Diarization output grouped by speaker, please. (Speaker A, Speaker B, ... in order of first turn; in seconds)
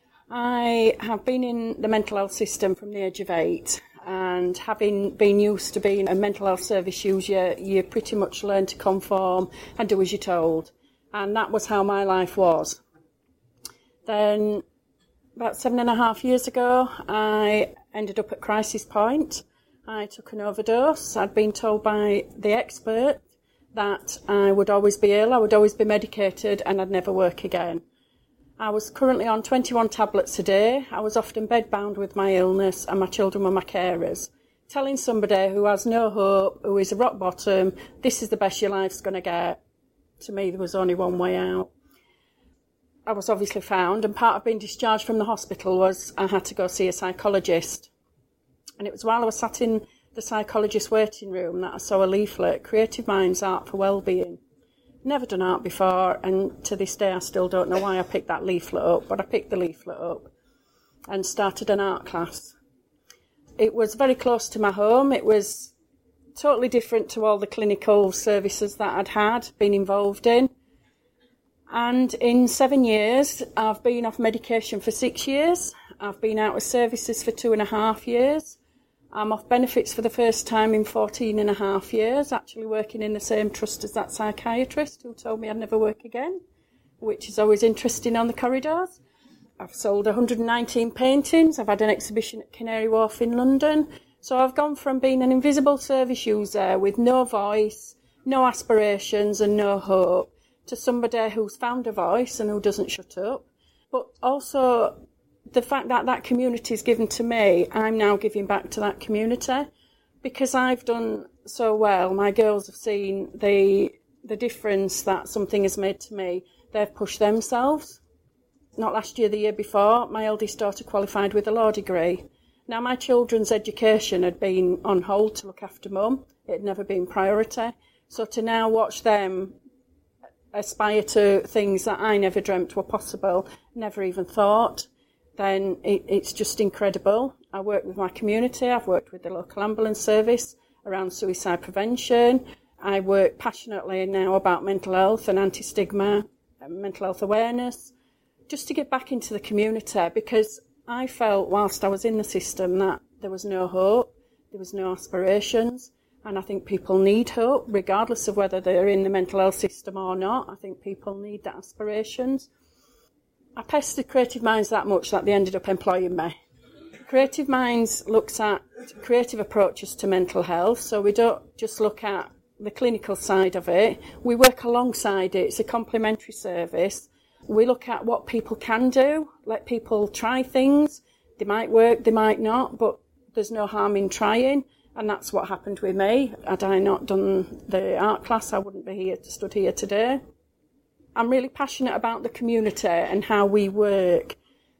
Speaker A: 0.3-12.8, 14.1-14.6, 15.3-23.2, 23.7-27.8, 28.6-39.6, 40.2-41.7, 43.0-47.9, 48.8-54.4, 55.0-60.3, 61.1-62.6, 63.6-65.7, 66.3-70.5, 71.7-78.6, 79.1-86.4, 87.0-89.0, 89.6-105.0, 105.5-109.7, 110.2-118.0, 118.8-129.5, 130.5-147.9, 148.5-162.5, 163.6-166.3, 167.1-190.2, 191.1-194.4